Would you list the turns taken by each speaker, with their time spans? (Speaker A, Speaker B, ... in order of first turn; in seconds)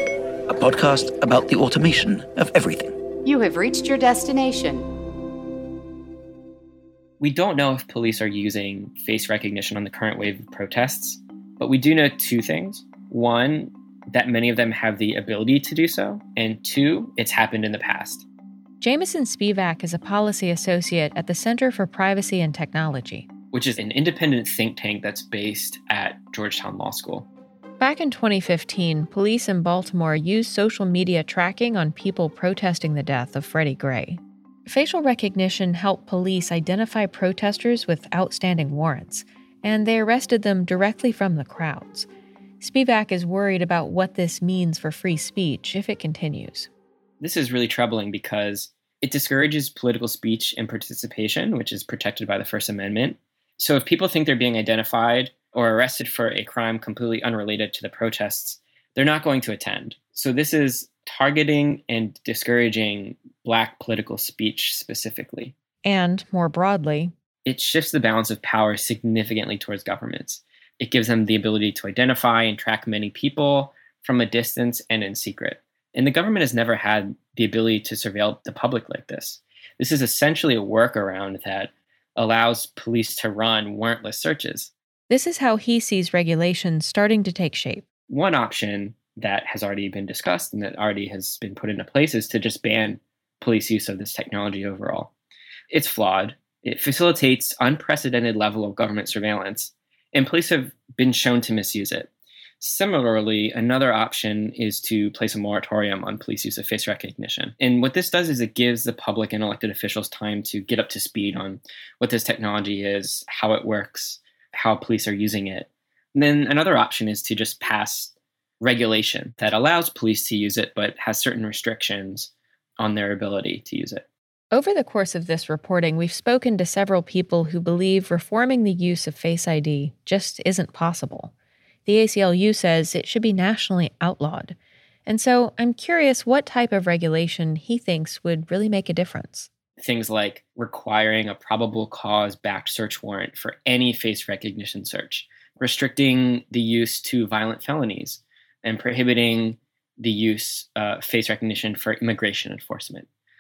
Speaker A: 0.5-1.9, 3.3-4.3
Speaker B: 0.6-2.9
Speaker C: 7.2-18.3, 23.5-27.3, 47.2-65.5, 67.5-84.7, 88.1-95.1, 95.7-102.1, 102.6-124.0, 139.8-153.1
Speaker D: 18.8-23.3, 27.8-42.1, 42.6-46.7, 65.8-67.1, 85.1-87.9, 124.5-131.3, 131.9-139.5